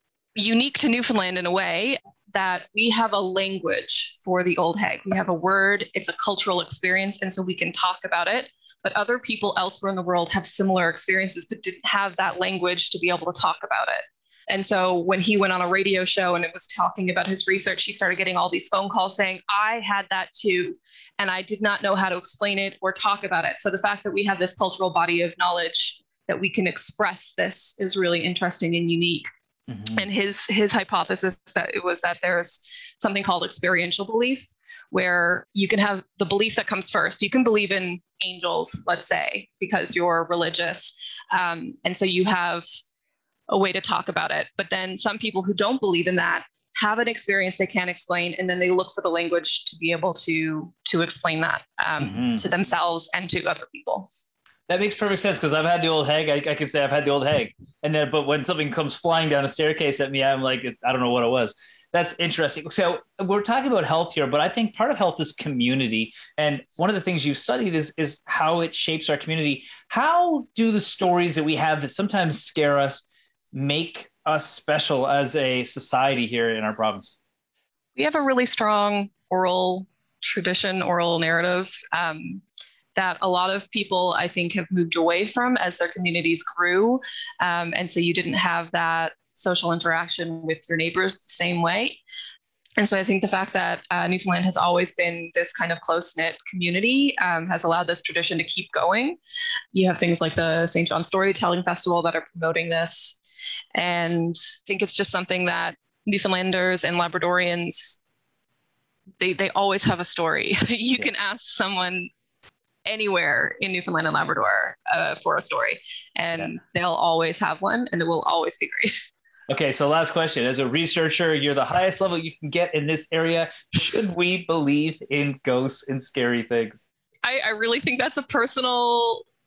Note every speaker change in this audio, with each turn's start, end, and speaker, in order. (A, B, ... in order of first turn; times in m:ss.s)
0:00.4-0:29.3 A
0:29.7-0:30.0 B
0:29.9-0:42.7 A
0:43.5-0:54.1 A
0:52.0-0:52.5 B
0:54.7-1:17.2 B
1:18.0-1:22.4 A
1:23.0-1:32.0 A
1:32.8-1:39.2 A
1:39.7-1:43.2 A
1:43.7-1:48.0 A
1:49.2-1:52.1 A
1:52.8-1:59.1 A
1:59.5-2:06.8 B
2:07.2-2:09.2 A